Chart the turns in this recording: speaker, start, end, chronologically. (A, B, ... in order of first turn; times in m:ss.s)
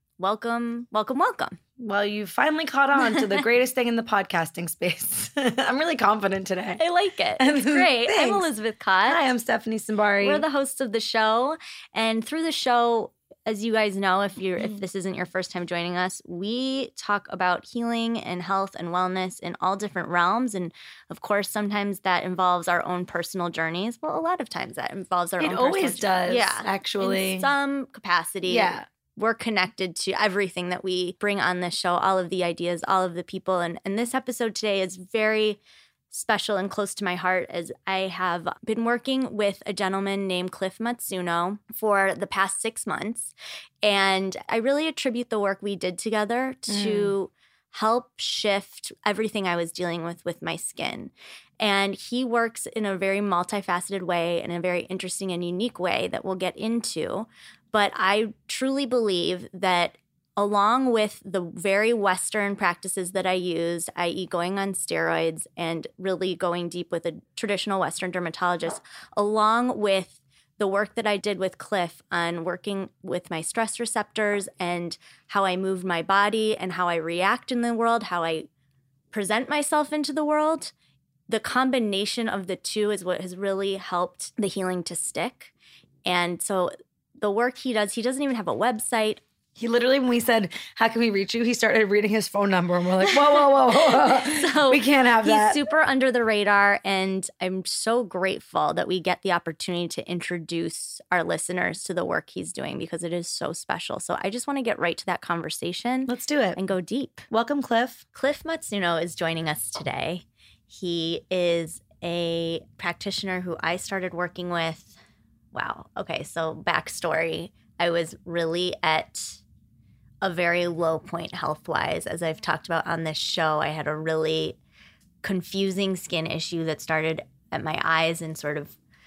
0:00.2-0:01.6 A
0:01.8-0:06.8 B
0:06.8-0:09.2 A
0:07.4-0:08.5 B
0:09.0-0:10.4 B
0:10.2-0:35.6 A
0:25.4-0:27.5 B
0:28.5-0:28.8 B
0:36.1-1:18.5 A
0:46.7-0:47.1 B
1:19.1-1:20.7 A
1:21.3-1:25.5 A
1:26.0-1:29.2 A
1:29.6-1:35.6 B
1:33.7-1:47.2 A
1:46.1-1:46.6 B
1:47.3-1:48.0 B
1:48.1-1:54.9 A
1:55.5-1:59.4 A
2:00.2-2:04.6 A
2:05.2-2:08.7 A